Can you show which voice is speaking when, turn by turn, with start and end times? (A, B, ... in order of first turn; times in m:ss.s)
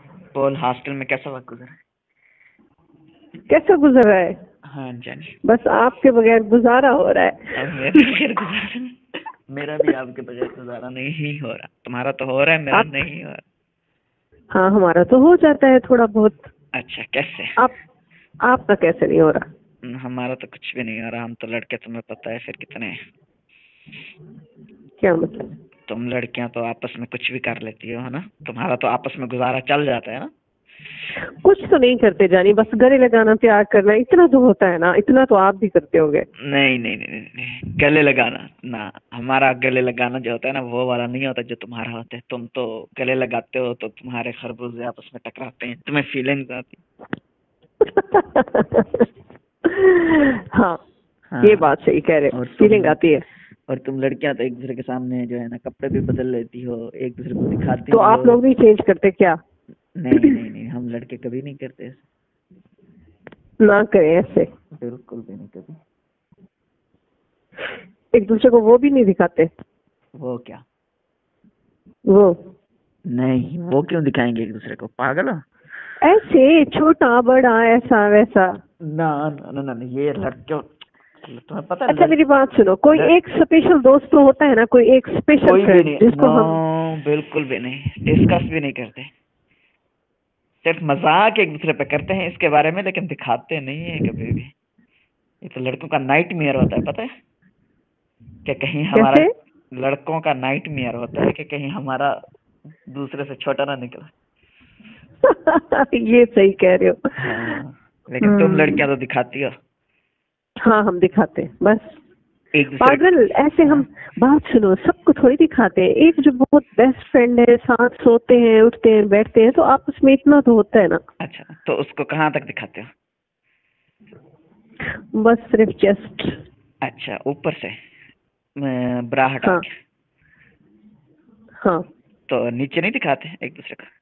0:00.3-0:01.8 A
0:03.5-0:04.4 B
0:04.6-0:05.4 A
0:05.4-0:08.1 B
0:07.6-0:08.9 A
0:09.5-0:13.4 A
0:14.5-0:16.5 B
0:16.7-0:17.5 A
0:18.4-0:19.4 B
0:19.8-0:23.0 A
0:25.0-0:25.4 B
0:25.9-0:30.3 A
0:31.4-0:36.2 B
0:36.5-0:46.8 A
0:47.8-0:49.0 B
0:49.7-0:50.8 B
0:51.3-0:51.7 A
0:51.4-0:53.2 B
0:52.3-0:53.0 A
0:53.7-0:58.4 A
0:57.9-0:59.4 B
1:00.0-1:02.0 A
1:03.6-1:04.5 B
1:04.8-1:05.8 A
1:08.1-1:09.5 B
1:10.2-1:10.6 A
1:12.1-1:12.4 B
1:13.1-1:15.4 A
1:16.0-1:18.6 B
1:18.9-1:20.7 A
1:21.2-1:22.2 A
1:21.9-1:26.6 B
1:25.4-1:29.1 A
1:30.6-1:34.5 A
1:35.4-1:37.1 A
1:38.4-1:39.2 A
1:38.9-1:39.3 B
1:39.8-1:42.2 A
1:42.9-1:44.1 A
1:45.2-1:47.6 B
1:47.2-1:49.5 A
1:48.2-1:48.8 B
1:50.6-1:52.0 B
1:52.5-1:53.1 A
1:52.8-2:01.0 B
1:53.6-1:53.9 A
2:01.2-2:02.9 A
2:05.1-2:06.4 B
2:06.8-2:07.8 A
2:08.6-2:09.7 A
2:12.3-2:13.9 A